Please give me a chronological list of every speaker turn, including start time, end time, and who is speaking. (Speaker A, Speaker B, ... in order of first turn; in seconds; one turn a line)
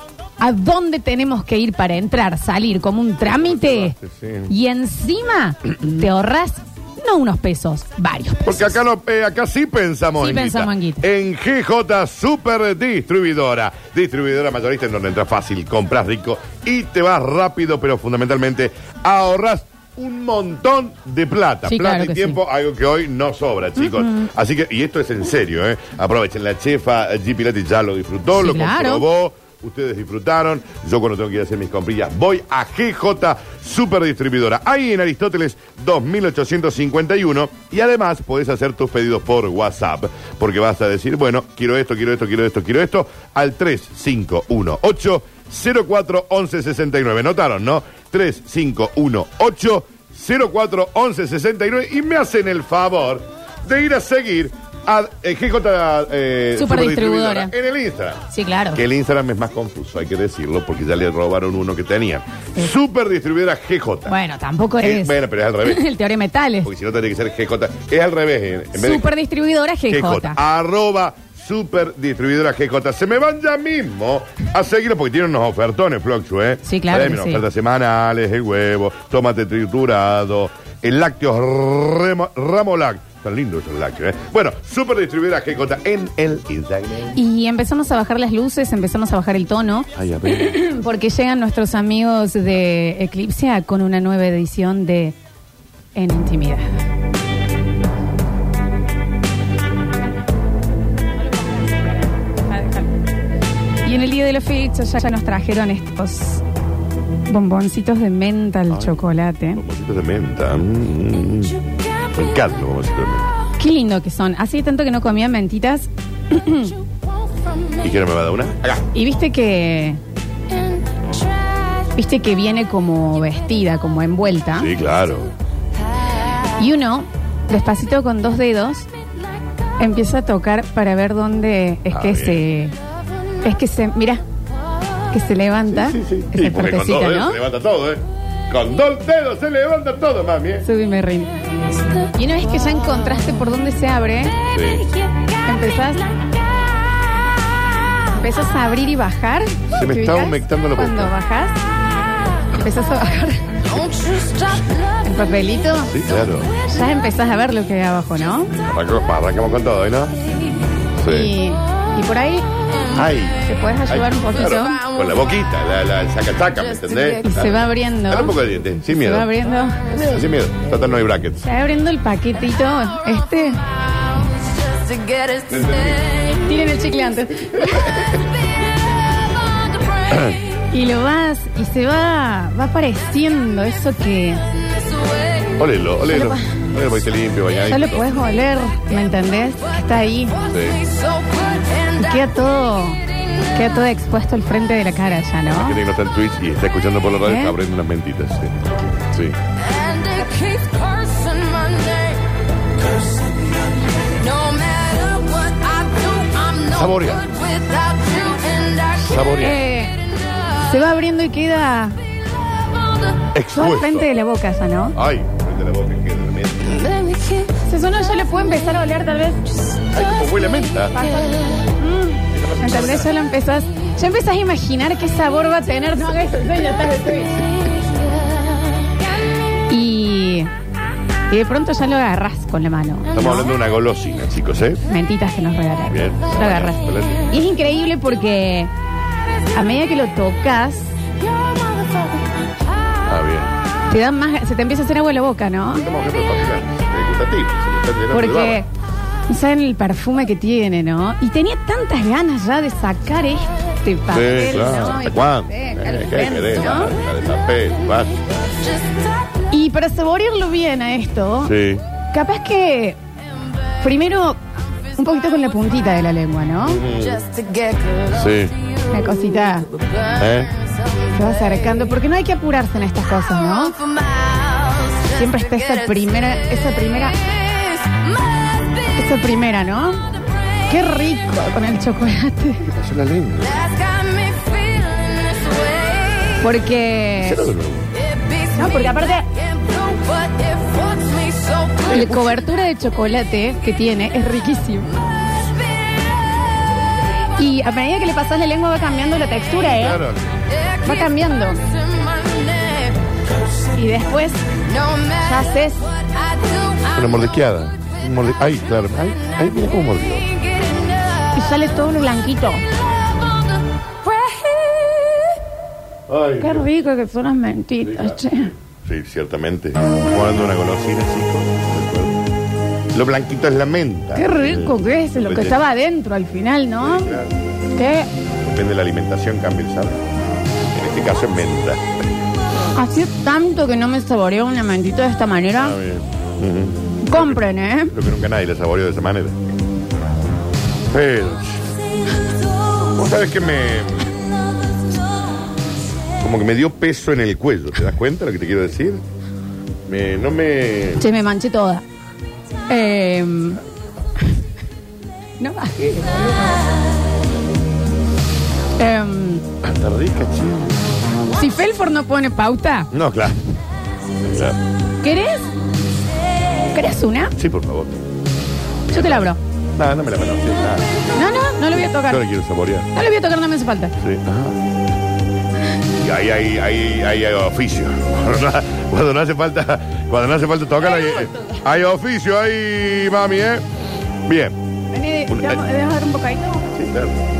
Speaker A: 0.4-4.0
Speaker B: 3.2-4.5
Speaker A: 4.5-8.4
Speaker B: 8.4-58.2
Speaker A: 10.2-11.0
Speaker A: 21.7-22.4
Speaker A: 28.3-29.0
Speaker A: 56.6-57.5
Speaker A: 58.3-58.8
Speaker B: 58.7-64.1
Speaker A: 64.1-66.7
Speaker B: 64.8-65.9
Speaker B: 66.6-69.1
Speaker A: 68.8-70.4
Speaker B: 69.9-87.2
Speaker A: 76.6-77.4
Speaker A: 87.2-95.2
Speaker B: 90.0-90.6
Speaker A: 96.0-96.8
Speaker A: 101.3-103.0
Speaker A: 103.8-106.4
Speaker A: 107.3-109.6
Speaker B: 108.7-109.0
Speaker B: 109.5-111.6
Speaker B: 112.1-113.3
Speaker A: 113.6-116.7
Speaker B: 117.8-118.8
Speaker A: 118.9-120.0
Speaker A: 122.0-124.7
Speaker B: 124.6-125.3
Speaker A: 126.6-128.9
Speaker A: 129.8-132.8
Speaker B: 131.9-132.4
Speaker A: 133.4-134.2
Speaker A: 135.1-137.4
Speaker B: 135.7-140.7
Speaker A: 140.6-141.4
Speaker A: 142.2-144.3
Speaker B: 144.5-144.8
Speaker A: 145.4-146.1
Speaker A: 148.1-151.6
Speaker B: 149.7-151.1
Speaker A: 152.6-153.6
Speaker B: 153.7-154.6
Speaker A: 155.0-155.9
Speaker B: 155.9-156.5
Speaker A: 156.6-158.5
Speaker B: 158.6-160.3
Speaker B: 161.0-161.3
Speaker A: 161.1-162.4
Speaker B: 162.9-169.3
Speaker A: 163.4-164.8
Speaker A: 167.1-168.4
Speaker A: 169.0-169.8
Speaker B: 169.9-171.4
Speaker A: 171.4-173.6
Speaker B: 175.5-176.0
Speaker A: 176.5-177.9
Speaker B: 177.7-178.1
Speaker B: 180.1-180.4
Speaker A: 180.7-184.4
Speaker B: 185.6-188.1
Speaker A: 186.1-186.4
Speaker A: 187.7-190.3
Speaker B: 190.5-190.8
Speaker A: 191.9-193.0
Speaker A: 193.5-195.8
Speaker B: 195.5-199.4
Speaker A: 197.2-197.5
Speaker B: 206.6-207.4
Speaker B: 208.9-209.6
Speaker A: 209.3-210.0
Speaker A: 210.6-212.0
Speaker B: 213.3-214.1
Speaker A: 213.6-215.0
Speaker B: 215.0-217.0
Speaker A: 217.7-219.4
Speaker B: 219.9-221.0
Speaker A: 220.9-227.4
Speaker B: 222.3-223.1
Speaker A: 229.7-230.5
Speaker A: 231.3-233.5
Speaker B: 233.1-234.8
Speaker A: 234.9-238.7
Speaker B: 235.9-237.3
Speaker A: 239.6-240.9
Speaker B: 243.1-243.6
Speaker A: 243.9-245.9
Speaker B: 245.7-248.6
Speaker A: 248.1-248.7
Speaker A: 249.3-257.0
Speaker B: 254.1-258.3
Speaker A: 259.5-261.5
Speaker B: 261.4-261.8
Speaker A: 262.1-263.0
Speaker A: 263.8-264.4
Speaker A: 265.0-266.8
Speaker B: 266.7-267.3
Speaker B: 268.1-268.6
Speaker A: 268.9-269.7
Speaker B: 270.2-270.5
Speaker A: 271.1-273.8
Speaker A: 275.1-277.2
Speaker A: 278.9-280.0
Speaker A: 280.7-282.7
Speaker B: 282.7-283.7
Speaker A: 286.4-287.4
Speaker B: 287.2-287.9
Speaker A: 288.6-289.3
Speaker A: 291.9-294.9
Speaker A: 297.4-300.0
Speaker B: 299.8-300.3
Speaker A: 300.8-301.6
Speaker A: 303.8-304.4
Speaker A: 305.2-305.9
Speaker B: 306.9-310.3
Speaker A: 311.3-312.6
Speaker A: 314.0-315.3
Speaker B: 316.1-316.6
Speaker A: 316.4-318.5
Speaker B: 317.8-318.2
Speaker B: 318.8-322.2
Speaker B: 322.9-325.6
Speaker A: 324.1-327.1
Speaker B: 326.8-327.3
Speaker A: 327.8-328.1
Speaker B: 328.4-330.0
Speaker B: 330.7-331.8
Speaker A: 332.7-335.8
Speaker B: 335.6-339.4
Speaker A: 337.0-337.9
Speaker B: 340.9-341.6
Speaker B: 342.9-344.1
Speaker B: 346.2-349.0
Speaker B: 349.9-351.0
Speaker A: 351.0-351.8
Speaker A: 352.7-353.6
Speaker A: 355.4-356.6
Speaker A: 358.8-359.4
Speaker B: 359.6-360.8
Speaker A: 361.4-362.9
Speaker B: 362.9-363.4
Speaker B: 364.2-364.6
Speaker A: 365.0-365.5
Speaker A: 366.7-367.4
Speaker B: 367.4-368.0
Speaker B: 368.9-370.9
Speaker A: 368.9-369.4
Speaker A: 371.1-372.2
Speaker B: 372.0-372.9
Speaker A: 372.9-373.9
Speaker B: 374.0-374.6
Speaker B: 376.0-383.7
Speaker A: 381.2-381.6
Speaker B: 384.3-384.6
Speaker A: 384.9-386.7
Speaker B: 385.3-385.6
Speaker B: 386.8-387.2